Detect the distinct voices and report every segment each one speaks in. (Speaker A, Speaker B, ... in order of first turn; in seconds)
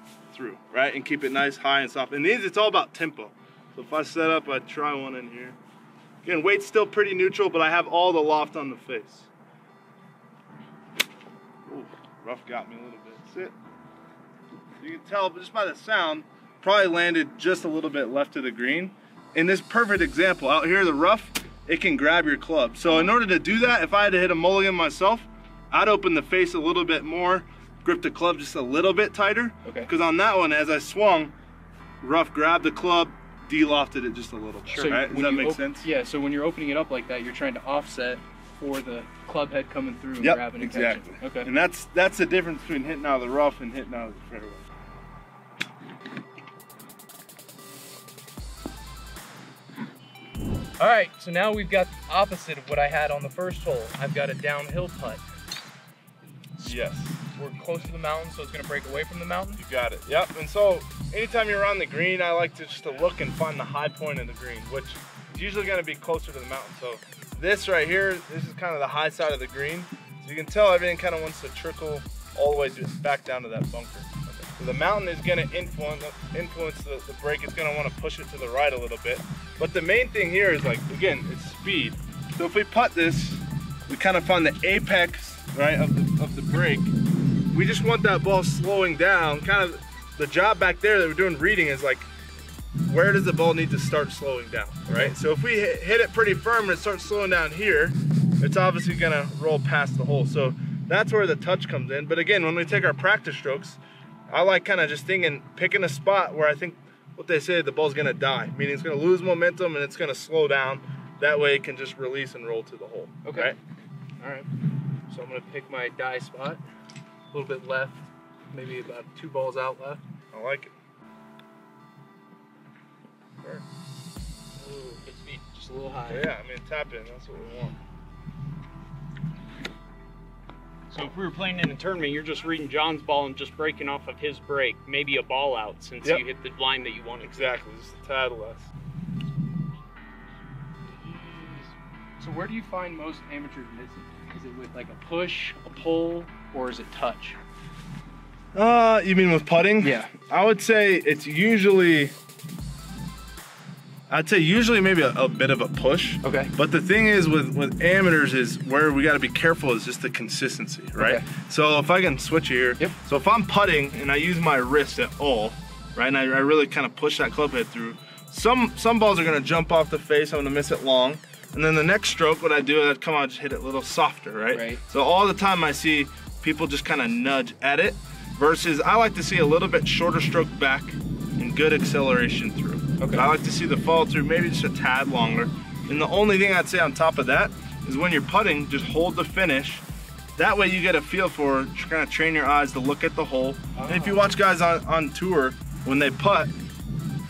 Speaker A: 0.3-5.6, 6.2-9.3, 11.7-13.6, 14.8-31.3, 32.0-35.9, 40.2-44.6, 56.6-57.3, 59.6-86.9, 87.5-92.1, 92.8-113.6, 120.3-120.7, 126.1-127.8, 137.2-138.7, 148.5-152.1, 154.1-189.8, 190.4-196.5
Speaker B: 22.9-23.1, 29.6-29.9, 34.7-41.5, 50.8-55.2, 57.3-59.6, 113.2-113.5, 114.2-114.5, 115.1-116.6, 117.3-120.0, 124.6-126.2, 141.0-147.4, 149.8-150.1, 156.2-156.5, 161.0-161.2, 174.5-174.8, 183.0-183.3, 193.8-194.2
Speaker C: 125.0-125.4, 130.9-137.6